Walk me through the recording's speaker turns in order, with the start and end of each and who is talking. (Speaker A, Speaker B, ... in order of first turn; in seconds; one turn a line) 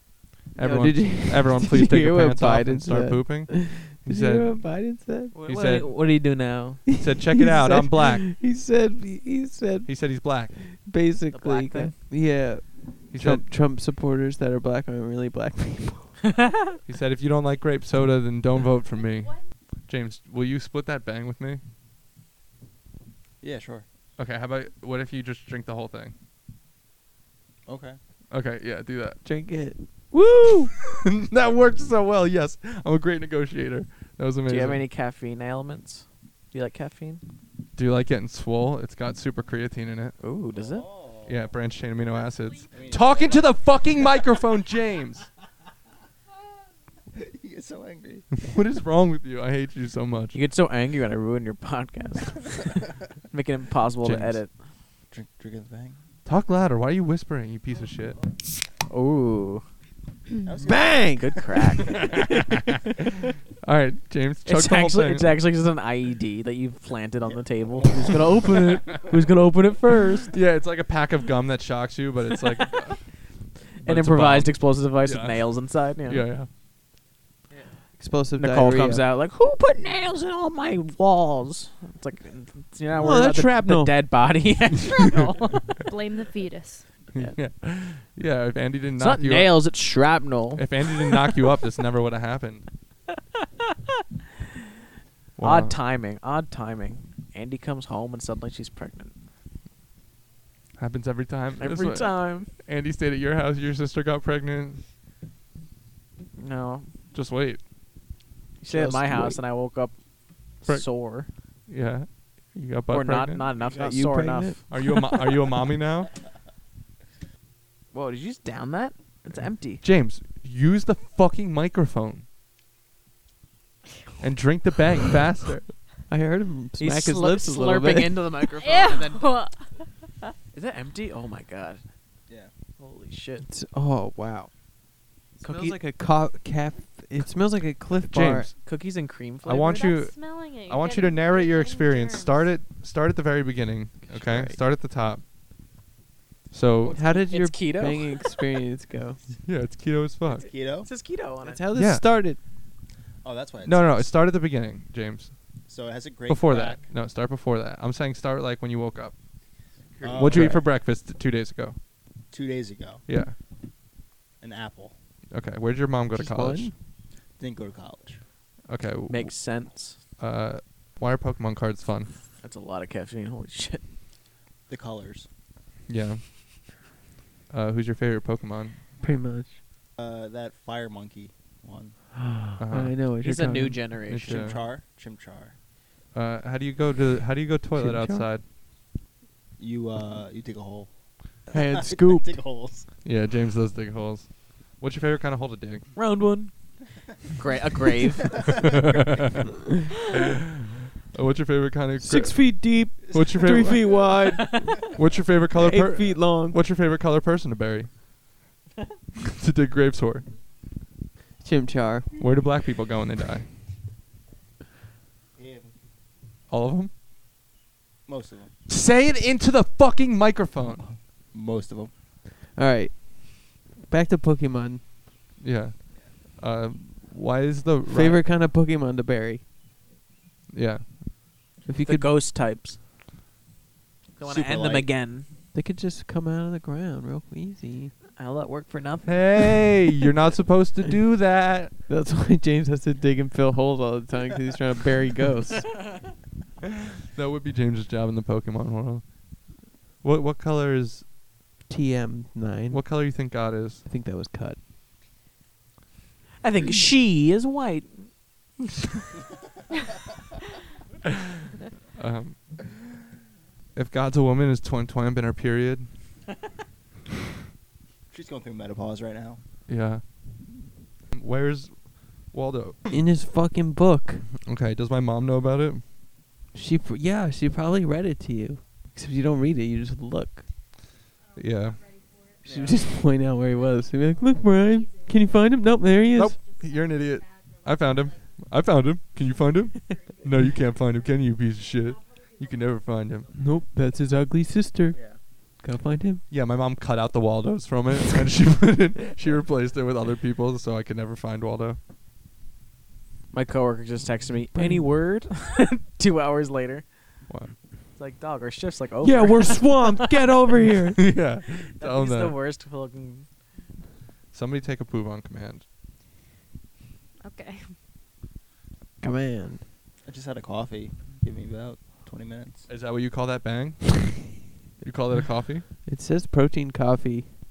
Speaker A: 0.6-4.8
Speaker B: 0.6-5.4
Speaker C: 5.3-6.8
Speaker A: 5.5-5.9
Speaker B: 6.9-16.2
Speaker A: 6.9-8.3
Speaker A: 9.8-10.6
Speaker C: 11.3-12.1
Speaker A: 13.1-13.5
Speaker C: 16.2-16.8
Speaker A: 16.9-21.6
Speaker D: 23.4-23.9
Speaker A: 24.2-26.1
Speaker D: 27.7-28.0
Speaker A: 28.3-29.2
Speaker B: 29.2-30.7
Speaker A: 31.0-34.9
Speaker C: 34.5-37.2
Speaker A: 37.8-40.2
Speaker C: 40.2-40.9
Speaker D: 40.5-41.4
Speaker A: 41.3-45.3
Speaker D: 42.7-43.6
Speaker D: 47.1-48.3
Speaker A: 48.4-50.4
Speaker C: 50.3-54.6
Speaker A: 54.0-54.4
Speaker D: 55.1-56.0
Speaker A: 56.2-58.2
Speaker C: 58.9-59.6
Speaker D: 60.5-61.1
Speaker B: 60.6-62.7
Speaker C: 61.0-62.2
Speaker A: 62.0-62.8
Speaker A: 63.6-65.3
Speaker C: 64.5-70.3
Speaker D: 67.3-69.2
Speaker A: 70.3-73.2
Speaker A: 73.8-76.5
Speaker C: 73.8-76.3
Speaker B: 78.0-79.1
Speaker C: 78.4-85.8
Speaker B: 82.9-84.0
Speaker E: 85.8-86.9
Speaker A: 87.1-89.6
Speaker C: 89.0-91.4
Speaker A: 90.6-92.7
Speaker A: 95.4-95.8
Speaker C: 95.4-99.1
Speaker A: 100.8-104.8
Speaker C: 101.6-102.5
Speaker C: 106.4-106.9
Speaker A: 107.1-107.6
Speaker C: 108.6-110.0
Speaker B: 108.7-109.4
Speaker C: 110.5-111.3
Speaker A: 110.7-113.5
Speaker C: 112.9-114.8
Speaker B: 113.6-114.7
Speaker A: 114.7-116.2
Speaker C: 117.9-119.8
Speaker A: 119.7-122.2
Speaker A: 124.2-125.7
Speaker B: 126.1-128.5
Speaker C: 126.8-129.3
Speaker E: 128.6-130.3
Speaker C: 130.5-131.8
Speaker C: 132.8-133.5
Speaker B: 133.4-134.5
Speaker B: 135.4-138.5
Speaker C: 135.4-135.8
Speaker A: 138.1-138.7
Speaker C: 138.6-139.7
Speaker A: 139.4-145.2
Speaker E: 139.5-142.5
Speaker B: 144.1-144.5
Speaker A: 146.5-147.0
Speaker C: 146.8-148.4
Speaker B: 146.9-149.2
Speaker A: 149.4-150.5
Speaker D: 150.3-150.9
Speaker C: 150.8-151.6
Speaker B: 151.4-152.4
Speaker A: 151.8-152.1
Speaker D: 153.2-154.1
Speaker A: 153.6-155.4
Speaker D: 155.7-156.9
Speaker A: 156.3-159.2
Speaker D: 160.0-160.6
Speaker B: 160.2-160.6
Speaker A: 160.2-161.8
Speaker D: 162.3-163.0
Speaker A: 163.1-163.4
Speaker D: 164.4-164.9
Speaker A: 165.3-166.7
Speaker B: 166.1-166.7
Speaker D: 167.4-168.2
Speaker A: 168.7-172.1
Speaker C: 169.1-170.0
Speaker C: 172.4-173.8
Speaker D: 174.7-175.3
Speaker A: 175.9-176.7
Speaker A: 177.5-178.8
Speaker B: 179.0-179.6
Speaker D: 180.0-182.0
Speaker B: 182.2-184.0
Speaker A: 182.6-183.0
Speaker C: 183.2-184.6
Speaker A: 184.1-184.6
Speaker D: 184.2-185.6
Speaker A: 186.1-188.4
Speaker B: 187.8-188.3
Speaker D: 189.6-192.9
Speaker B: 191.5-192.7
Speaker A: 193.0-195.9
Speaker C: 195.9-196.6
Speaker C: 197.4-198.9
Speaker D: 198.3-198.9
Speaker A: 198.5-199.3
Speaker A: 200.1-204.0
Speaker B: 202.0-206.6
Speaker D: 203.0-203.9
Speaker C: 204.2-204.8
Speaker A: 204.9-208.0
Speaker A: 209.3-210.3
Speaker B: 211.4-212.2
Speaker A: 212.2-213.5
Speaker D: 215.4-215.7
Speaker A: 216.5-216.9
Speaker D: 218.1-218.5
Speaker A: 218.7-221.0
Speaker D: 221.3-221.9
Speaker B: 222.5-224.8
Speaker A: 225.4-228.2
Speaker B: 227.9-229.4
Speaker A: 230.5-231.0
Speaker B: 231.7-232.1
Speaker C: 231.8-232.8
Speaker D: 234.2-235.0
Speaker C: 234.2-235.3
Speaker B: 235.5-237.9
Speaker C: 238.2-239.8
Speaker A: 239.0-241.7
Speaker B: 241.9-245.8
Speaker A: 247.1-249.2
Speaker A: 250.0-251.1
Speaker B: 251.7-253.2
Speaker A: 252.7-253.8
Speaker B: 253.8-254.6
Speaker C: 256.4-258.1
Speaker A: 261.9-262.7
Speaker A: 263.8-265.9
Speaker D: 268.1-269.4
Speaker A: 269.7-270.1
Speaker A: 271.1-272.9
Speaker B: 272.9-274.3
Speaker A: 274.4-275.9
Speaker B: 276.5-280.5
Speaker A: 281.3-281.9
Speaker C: 282.4-282.8
Speaker B: 282.5-286.4
Speaker A: 286.1-293.3
Speaker B: 293.4-296.2
Speaker D: 294.9-295.2
Speaker A: 296.3-301.8
Speaker C: 303.3-306.9
Speaker B: 304.5-304.9
Speaker A: 307.3-307.6
Speaker C: 308.0-310.2
Speaker B: 309.0-311.1
Speaker A: 311.0-312.4
Speaker C: 311.5-313.4
Speaker A: 314.3-315.6
Speaker E: 317.2-317.7
Speaker B: 319.0-319.6
Speaker D: 320.1-322.7
Speaker A: 322.7-325.7
Speaker B: 325.9-327.3